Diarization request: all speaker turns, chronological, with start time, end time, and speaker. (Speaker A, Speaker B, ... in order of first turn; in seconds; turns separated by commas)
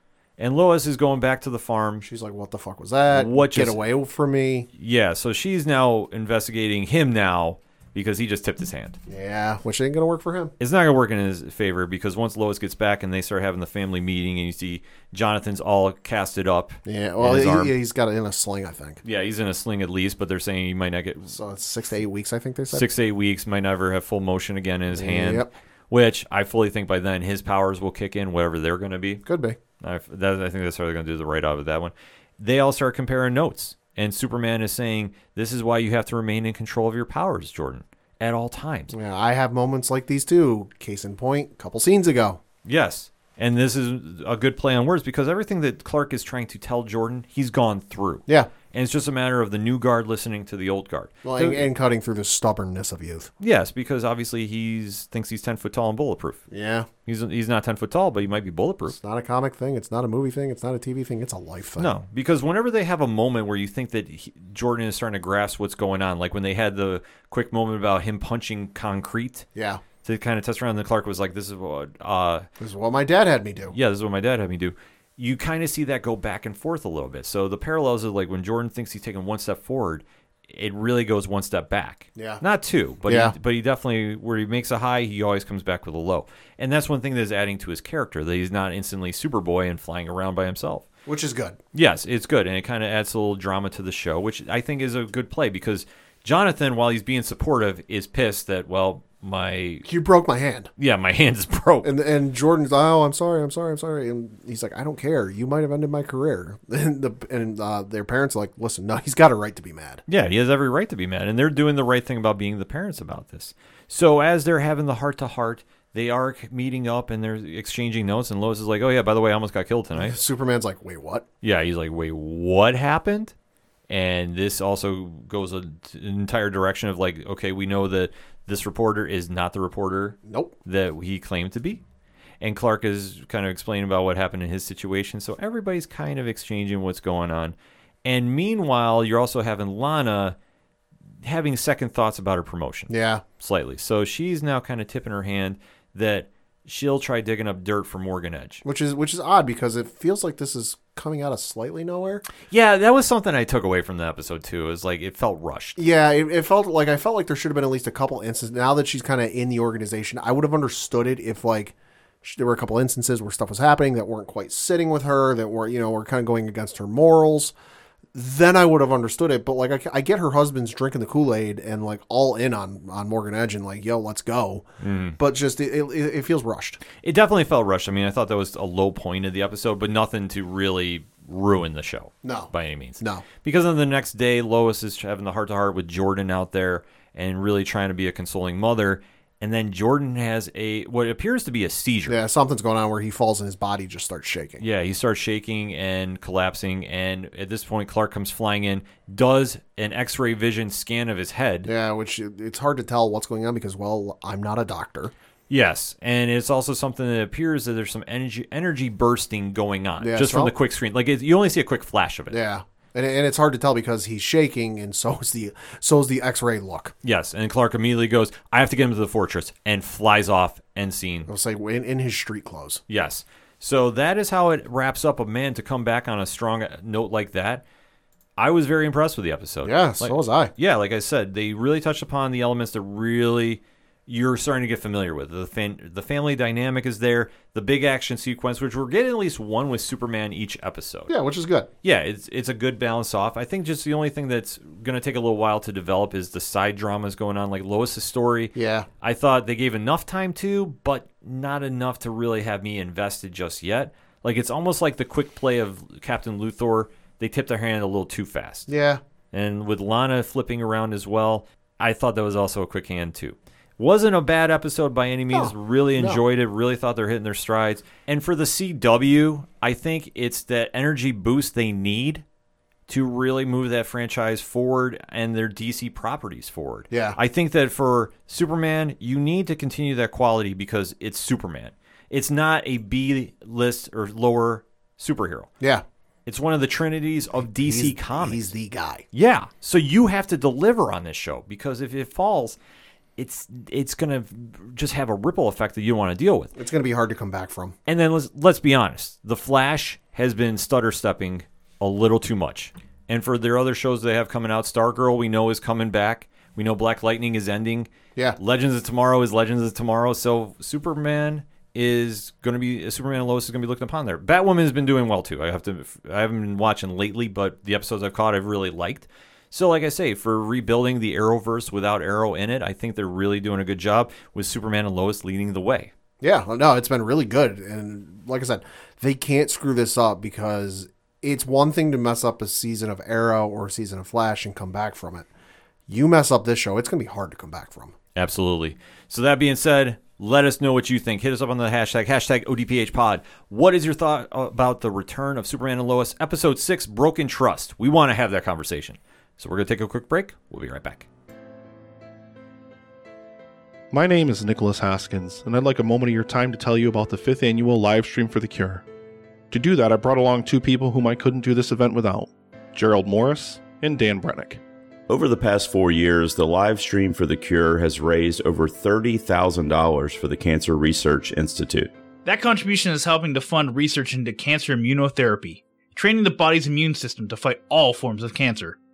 Speaker A: 0.4-2.0, Speaker B: 2.0-4.7, Speaker A: 3.1-3.8, Speaker A: 4.7-9.0, Speaker B: 9.1-10.5, Speaker A: 10.6-17.7, Speaker B: 16.9-19.0, Speaker A: 19.0-21.4, Speaker B: 21.3-22.9, Speaker A: 22.7-29.2, Speaker B: 24.9-25.5, Speaker B: 29.2-29.6, Speaker A: 29.8-38.9, Speaker B: 38.9-42.4, Speaker A: 42.6-51.7, Speaker B: 51.2-53.3, Speaker A: 53.4-56.4, Speaker B: 56.5-56.9, Speaker A: 57.0-59.0, Speaker B: 58.9-61.9, Speaker A: 61.8-69.5, Speaker B: 69.5-69.8, Speaker A: 70.0-72.5, Speaker B: 72.6-73.7, Speaker A: 73.7-90.8, Speaker B: 82.1-82.4, Speaker B: 83.0-83.3, Speaker B: 91.0-91.6, Speaker A: 91.7-99.8, Speaker B: 99.8-100.7, Speaker A: 100.8-101.9, Speaker B: 101.8-110.0, Speaker A: 110.1-120.2, Speaker B: 120.0-121.3, Speaker A: 121.4-123.3, Speaker A: 123.9-131.8, Speaker B: 130.2-130.5, Speaker A: 132.4-140.4, Speaker A: 141.2-148.6, Speaker B: 142.9-143.2, Speaker B: 148.6-152.2, Speaker A: 152.5-155.8, Speaker B: 155.8-167.5, Speaker B: 168.1-176.8, Speaker A: 174.8-175.2, Speaker A: 177.0-192.2, Speaker B: 182.2-183.2, Speaker B: 192.1-194.6, Speaker A: 194.6-201.7, Speaker B: 201.6-205.1, Speaker A: 205.5-212.4, Speaker B: 210.0-210.5, Speaker B: 212.3-216.9, Speaker A: 217.0-221.3, Speaker B: 221.3-222.8, Speaker A: 222.9-227.6, Speaker A: 228.4-241.1, Speaker B: 229.6-230.5, Speaker B: 241.1-241.7, Speaker A: 241.8-258.7, Speaker B: 248.5-248.9, Speaker B: 258.7-259.0, Speaker A: 259.3-272.2, Speaker B: 265.3-266.2, Speaker A: 272.9-285.5, Speaker B: 276.9-277.2, Speaker B: 285.6-285.8, Speaker A: 286.2-288.5, Speaker B: 287.4-289.1, Speaker A: 289.1-292.6, Speaker A: 293.2-296.5, Speaker B: 296.6-297.7, Speaker A: 297.9-325.9, Speaker B: 326.2-335.3, Speaker B: 335.9-337.9, Speaker A: 338.1-351.1, Speaker C: 353.9-358.8, Speaker C: 359.5-364.6, Speaker D: 365.1-371.9, Speaker E: 372.2-378.7